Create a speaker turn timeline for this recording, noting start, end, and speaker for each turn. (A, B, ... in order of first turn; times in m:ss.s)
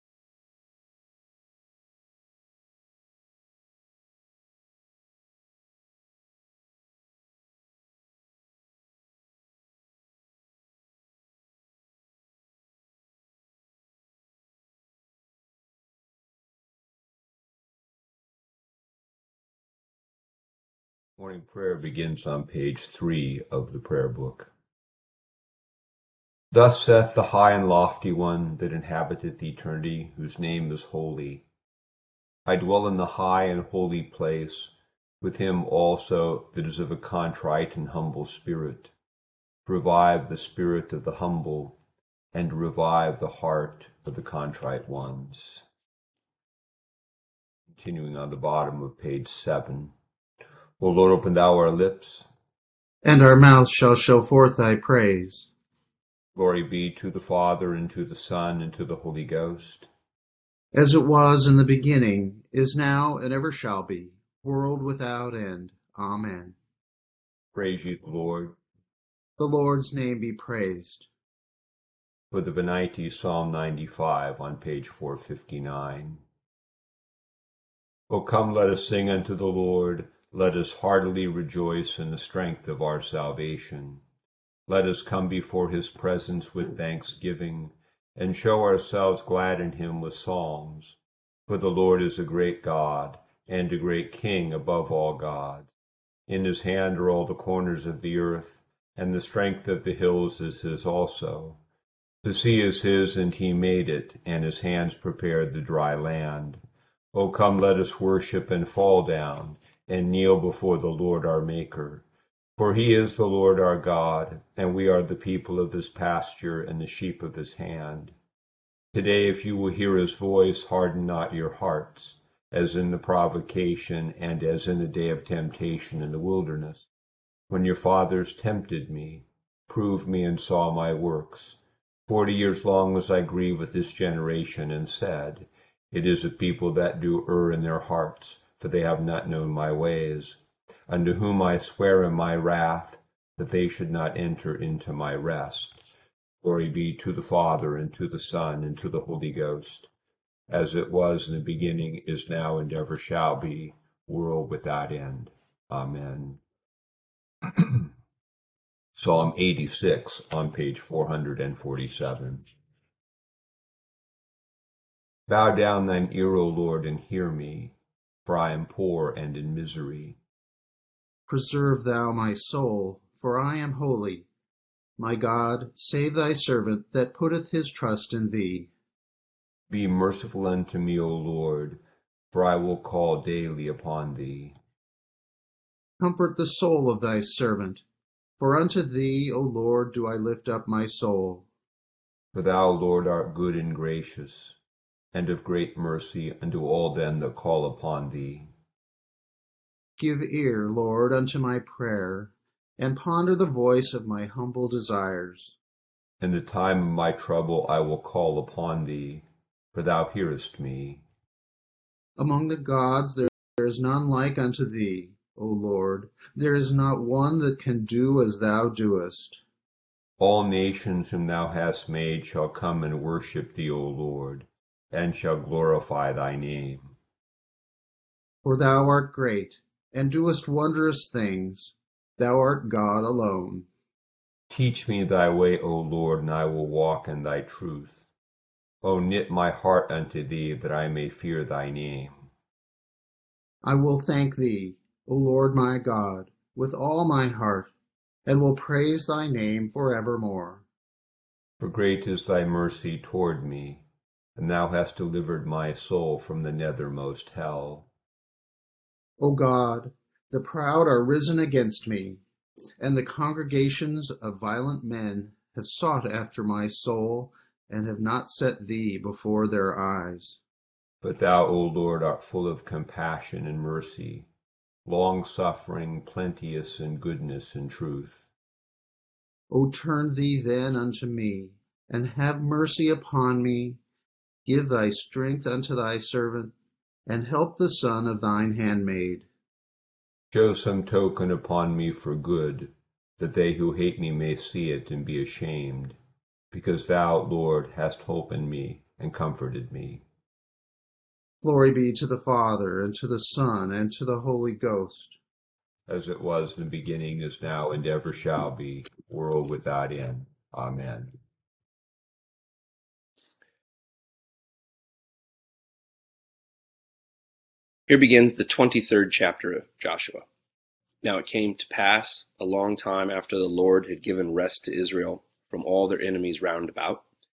0:21.2-0:24.5 A
0:26.5-0:31.4 A
0:32.4-0:38.9 A
0:39.6-0:41.8 A
0:42.3-0:45.6 A
0:47.7-0:49.9 A
0:50.8-0:52.3 A
0:53.0-0:55.5 B
0:56.3-0:59.9 A
1:00.7-1:06.6 B
1:07.5-1:08.6 A
1:09.4-1:11.1 B
1:12.3-1:16.2 A
1:18.1-1:24.0 A
1:24.7-1:35.7 A
1:36.3-1:41.6 A
1:42.2-1:46.6 A
1:47.1-1:52.0 A
1:52.6-1:58.1 A
1:58.9-2:06.9 A
2:07.5-2:20.4 A
2:20.9-2:25.8 A
2:26.4-2:29.9 A
2:30.5-2:36.4 A
2:37.5-2:37.9 A
2:38.9-2:42.4 A
2:45.3-2:47.7 A
2:48.2-2:50.2 A
2:51.3-2:54.3 B
2:55.0-2:58.7 B
2:59.7-3:01.8 A
3:02.3-3:04.6 A
3:06.0-3:07.8 B
3:08.4-3:11.4 B
3:12.3-3:14.6 A
3:15.1-3:18.5 A
3:20.0-3:25.6 B
3:26.2-3:31.0 A
3:32.2-3:39.4 B
3:40.2-3:46.9 A
3:48.4-3:53.7 B
3:54.5-3:58.0 A
3:58.8-4:02.3 A
4:03.6-4:07.7 B
4:08.2-4:10.6 B
4:11.6-4:13.8 A
4:14.4-4:17.9 A
4:19.2-4:22.2 B
4:22.8-4:30.4 B
4:31.0-4:34.3 A
4:34.8-4:38.2 A
4:39.5-4:43.8 B
4:44.4-4:46.5 B
4:47.0-4:49.2 B
4:50.3-4:56.0 A
4:56.5-5:00.0 A
5:01.4-5:05.2 B
5:05.9-5:11.2 A
5:17.9-5:20.2 C
5:21.0-5:27.0 C